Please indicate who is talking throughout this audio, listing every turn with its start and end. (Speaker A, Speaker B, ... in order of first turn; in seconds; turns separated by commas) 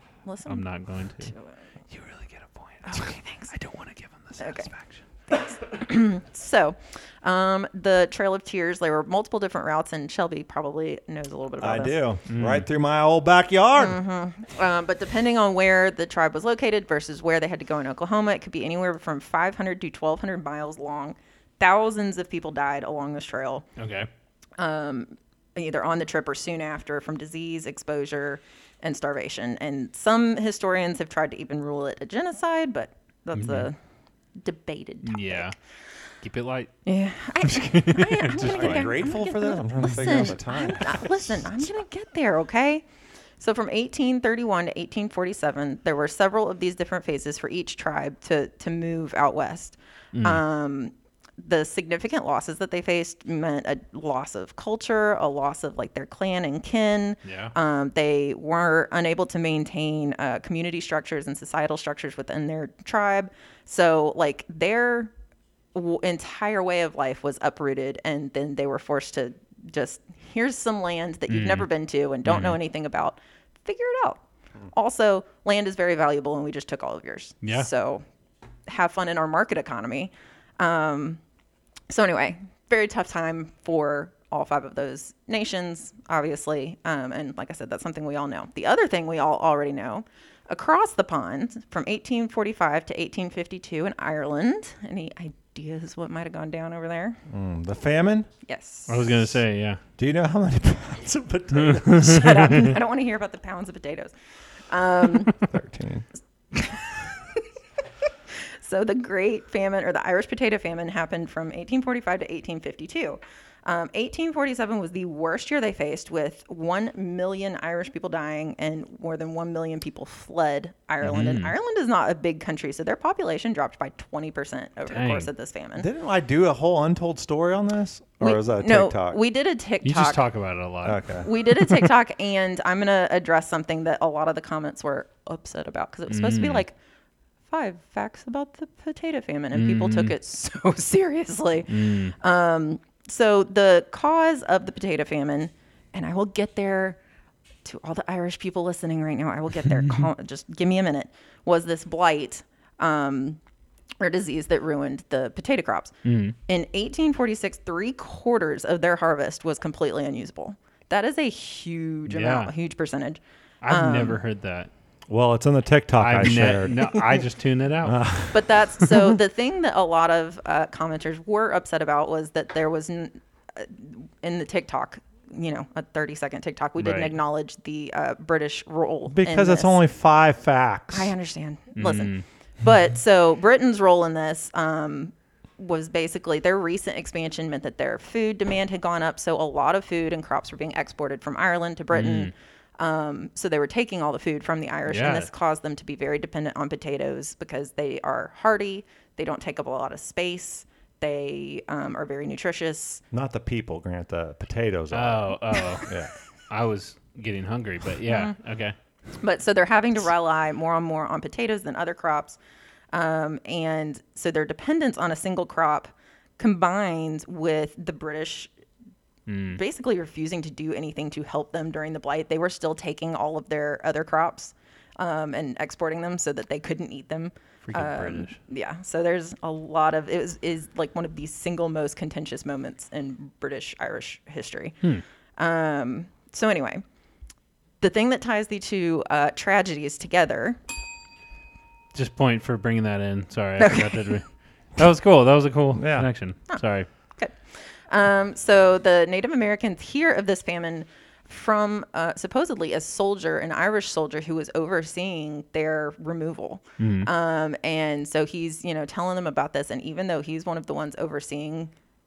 Speaker A: 0.2-0.7, Speaker B: 0.5-1.3, Speaker A: 1.2-1.6, Speaker B: 1.9-5.0, Speaker A: 2.8-3.5, Speaker A: 4.4-4.7, Speaker A: 5.3-12.0, Speaker C: 11.6-14.0, Speaker B: 12.3-12.7, Speaker A: 13.7-23.6, Speaker B: 23.8-24.1, Speaker A: 24.6-33.8, Speaker B: 33.4-33.7, Speaker A: 34.4-35.5, Speaker B: 35.0-35.5, Speaker B: 36.2-36.8, Speaker A: 36.9-42.8, Speaker B: 37.4-39.0, Speaker C: 38.4-41.4, Speaker A: 43.4-65.1, Speaker B: 50.1-50.4, Speaker B: 57.2-57.5, Speaker A: 65.7-74.2, Speaker B: 71.3-71.7, Speaker B: 72.2-72.6, Speaker A: 74.7-78.0, Speaker A: 78.7-81.2, Speaker A: 81.9-97.2, Speaker C: 97.3-98.3, Speaker A: 98.5-99.1, Speaker B: 98.9-99.8, Speaker C: 100.0-102.4, Speaker B: 101.7-102.3, Speaker A: 101.9-104.1, Speaker A: 104.7-105.4, Speaker C: 105.4-106.0, Speaker A: 106.5-107.4, Speaker A: 108.6-125.9, Speaker B: 121.0-121.5, Speaker B: 124.9-125.3, Speaker C: 125.8-129.2, Speaker A: 128.2-130.2, Speaker B: 129.8-131.2, Speaker C: 130.8-131.5, Speaker A: 131.2-136.7, Speaker B: 136.1-136.6, Speaker A: 137.5-147.0, Speaker B: 139.5-140.1, Speaker B: 141.7-142.1, Speaker A: 147.6-153.4, Speaker A: 154.0-155.9, Speaker B: 156.0-156.3, Speaker A: 156.4-164.2, Speaker B: 162.1-162.5, Speaker B: 163.6-164.7, Speaker C: 165.1-167.2, Speaker B: 166.0-168.1, Speaker C: 167.8-168.5, Speaker A: 168.3-179.8, Speaker B: 176.8-177.1, Speaker C: 179.1-181.1, Speaker A: 180.9-203.0, Speaker B: 181.8-182.2, Speaker B: 191.9-192.3, Speaker B: 194.9-195.3, Speaker C: 203.1-206.1, Speaker B: 204.9-205.9, Speaker B: 206.5-208.8, Speaker A: 208.1-208.3, Speaker A: 209.2-212.4, Speaker A: 212.9-218.5, Speaker B: 219.3-219.6, Speaker A: 219.5-234.8, Speaker B: 227.6-228.4, Speaker A: 235.4-236.8, Speaker A: 237.8-240.6, Speaker B: 241.9-244.2, Speaker A: 243.6-244.1, Speaker B: 244.8-246.9, Speaker C: 245.7-246.1, Speaker A: 247.2-261.7, Speaker B: 256.8-257.1